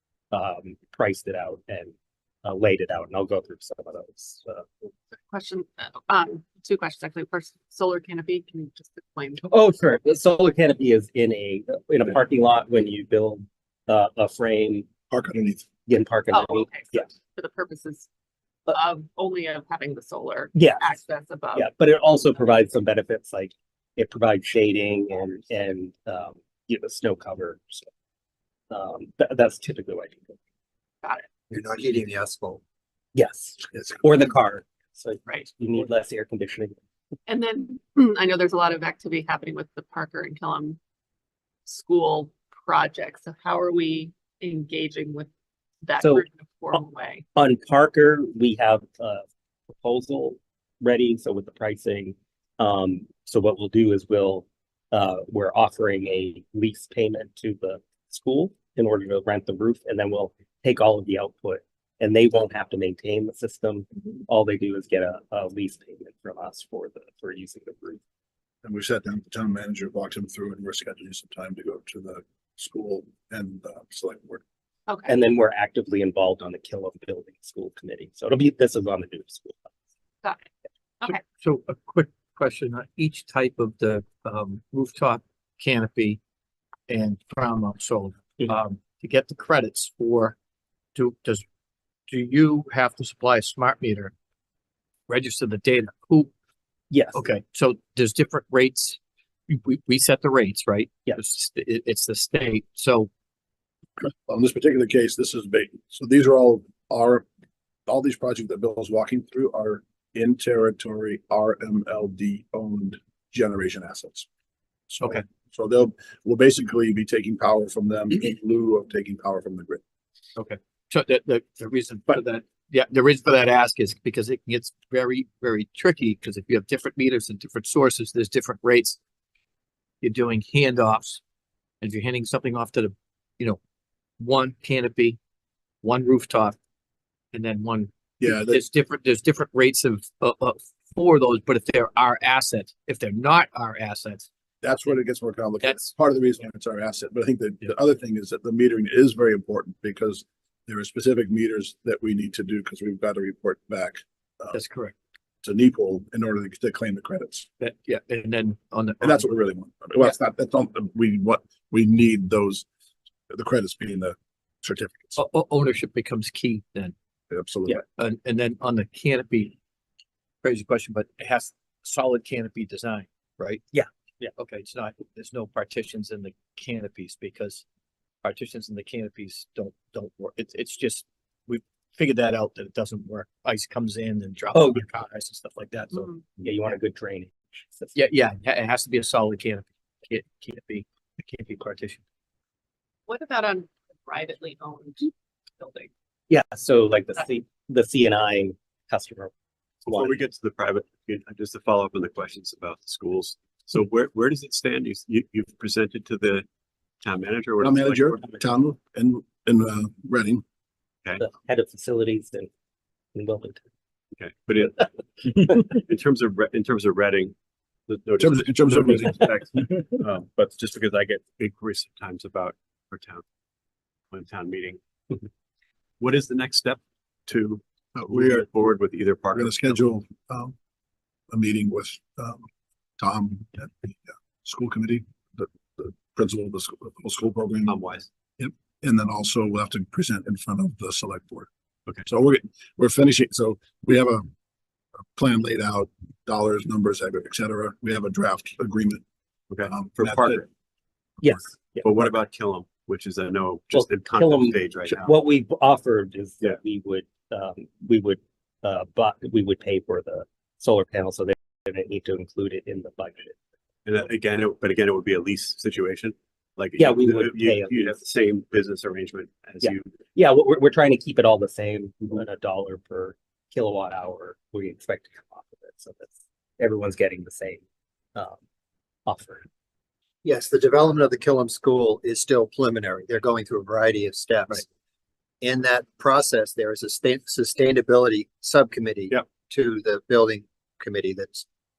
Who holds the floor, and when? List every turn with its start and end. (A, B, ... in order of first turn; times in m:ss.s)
0:00.3-0:01.9 A
0:02.4-0:04.7 A
0:05.3-0:09.5 B
0:09.5-0:14.9 A
0:15.1-0:15.6 C
0:15.9-0:17.1 A
0:16.3-0:18.1 B
0:18.7-0:21.7 B
0:20.5-0:21.0 A
0:21.5-0:27.9 A
0:28.7-0:30.4 A
0:31.5-0:32.6 D
0:33.1-0:36.8 A
0:37.3-0:40.8 B
0:41.7-0:45.3 B
0:45.8-0:47.2 B
0:46.0-0:46.8 A
0:47.3-0:49.2 A
0:49.8-1:08.0 A
1:08.6-1:14.4 C
1:15.1-1:19.6 A
1:21.2-1:26.2 E
1:26.9-1:30.4 E
1:30.9-1:31.4 E
1:32.1-1:34.1 E
1:35.1-1:36.3 E
1:36.9-1:37.2 A
1:37.1-1:43.1 E
1:44.0-1:47.2 C
1:47.9-1:54.3 C
1:55.0-1:55.2 E
1:55.0-1:59.8 C
2:00.5-2:09.0 E
2:10.0-2:11.2 E
2:11.8-2:13.6 E
2:14.2-2:15.2 E
2:15.8-2:16.6 E
2:17.3-2:24.3 E
2:18.2-2:18.6 C
2:24.6-2:34.6 C
2:25.6-2:25.9 E
2:34.5-2:34.9 E
2:35.4-2:37.5 C
2:37.6-2:39.3 E
2:39.0-2:42.7 C
2:43.3-2:45.2 C
2:45.2-2:46.9 E
2:47.3-2:47.8 C
2:47.7-2:49.6 E
2:50.4-2:53.7 E
2:53.7-2:54.3 A
2:54.4-2:57.6 E
2:58.2-3:06.2 E
3:04.5-3:04.8 A
3:06.4-3:08.0 A
3:07.9-3:12.0 E
3:13.1-3:15.9 B
3:16.3-3:19.3 A
3:19.9-3:20.2 A
3:19.9-3:26.4 F
3:27.0-3:28.3 F
3:27.6-3:30.4 C
3:31.2-3:32.5 A
3:33.2-3:33.6 A
3:34.2-3:37.4 F
3:37.9-3:43.2 F
3:38.2-3:39.8 C
3:44.1-3:45.2 F
3:46.0-3:49.8 F
3:48.0-3:48.5 C
3:49.4-3:50.6 C
3:51.3-3:52.4 C
3:53.0-3:57.8 C
3:57.7-3:58.1 F
3:58.4-4:01.5 C
4:02.1-4:04.3 C
4:05.2-4:09.0 C
4:09.5-4:10.4 F
4:09.7-4:10.4 C
4:11.2-4:11.8 A
4:11.8-4:15.2 F
4:13.7-4:23.4 A
4:23.9-4:29.9 F
4:26.8-4:28.0 A
4:29.6-4:37.6 A
4:39.1-4:39.5 A
4:40.2-4:44.7 D
4:45.4-4:51.4 D